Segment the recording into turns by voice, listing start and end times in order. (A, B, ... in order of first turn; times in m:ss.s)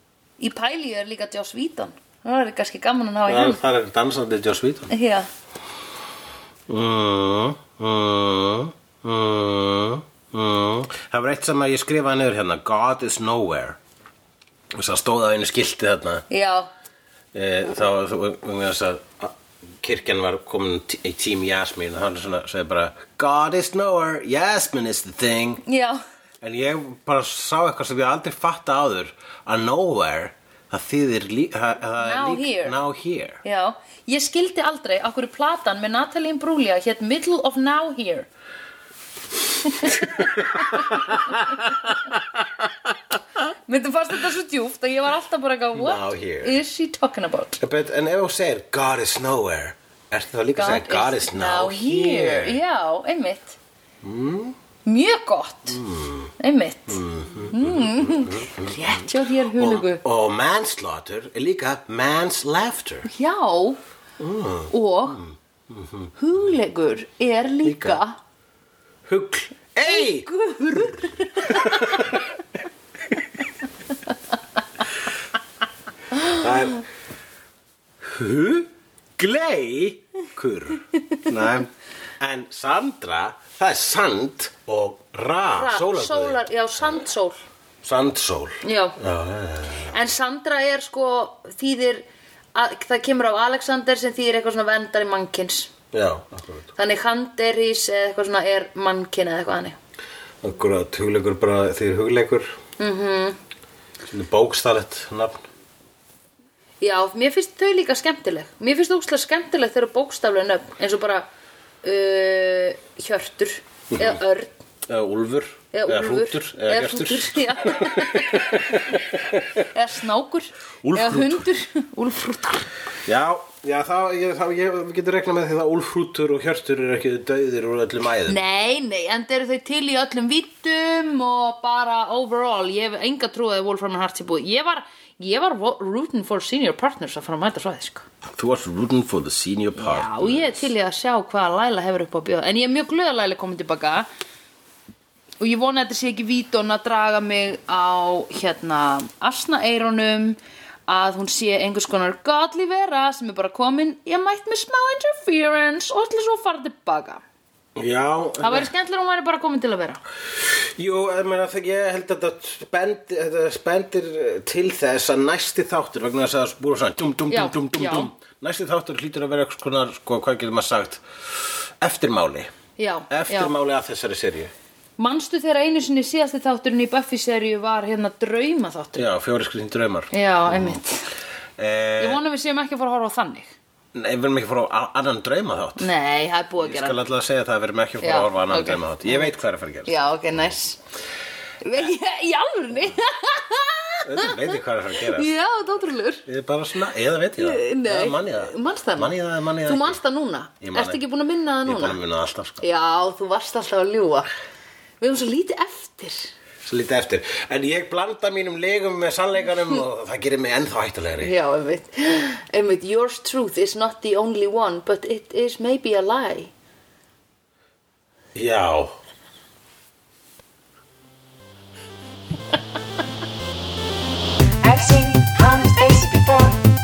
0:00.4-0:03.6 A
0:03.3-0:04.9 B
0:04.9-0:05.3 A
0:06.7-0:13.8 B
0:14.7-0:16.3 B
0:16.3-0:16.7 A
0:17.3-0:25.6 B
0:25.6-0:26.0 A
0:26.4-0:33.4 B
0:32.0-0:32.8 A
0:33.4-0:38.3 A
0:39.7-0:40.0 A
0:40.2-0:42.2 B
0:40.7-0:41.0 A
0:43.7-0:47.6 A
0:45.8-0:46.6 B
0:47.6-0:52.6 B
0:50.6-0:53.6 A
0:54.0-0:54.6 B
0:54.8-0:55.8 A
0:55.7-0:56.3 B
0:56.4-1:00.0 A
0:56.9-1:03.1 B
1:03.1-1:03.8 A
1:04.2-1:06.1 B
1:04.7-1:05.2 A
1:06.2-1:08.2 A
1:07.6-1:08.0 B
1:09.1-1:12.2 B
1:09.9-1:12.0 A
1:16.2-1:16.8 B
1:18.0-1:26.4 B
1:25.5-1:27.4 A
1:27.8-1:30.0 B
1:28.6-1:29.0 A
1:29.9-1:35.7 A
1:35.9-1:36.7 B
1:36.8-1:39.8 A
1:40.4-1:42.6 B
1:42.8-1:43.4 A
1:44.1-1:45.5 B
1:46.8-1:51.3 A
1:51.8-1:54.6 A
1:53.9-1:54.2 B
1:54.9-1:59.6 B
1:55.7-1:58.6 A
1:59.7-2:02.7 A
2:00.8-2:01.5 B
2:03.0-2:08.4 B
2:08.3-2:18.1 A
2:18.3-2:20.7 B
2:19.8-2:24.1 A
2:25.4-2:37.2 A
2:37.8-2:38.7 B
2:38.4-2:40.0 A
2:40.8-2:52.5 B
2:47.3-2:48.1 A
2:52.8-2:53.5 A
2:53.1-2:54.5 B
2:55.0-2:59.0 A
2:59.0-3:00.8 B
3:00.1-3:01.1 A
3:01.6-3:02.2 B
3:02.0-3:03.5 A
3:03.9-3:05.9 B
3:05.8-3:07.0 A
3:06.6-3:10.0 B
3:08.0-3:09.3 A
3:09.9-3:10.8 A
3:11.6-3:16.2 A
3:14.0-3:15.3 B
3:16.2-3:20.0 B
3:17.4-3:22.0 A
3:20.6-3:21.0 B
3:21.6-3:22.6 B
3:22.6-3:24.3 A
3:25.0-3:26.3 A
3:26.6-3:31.3 B
3:31.2-3:36.5 A
3:38.4-3:39.0 B
3:44.6-3:46.6 C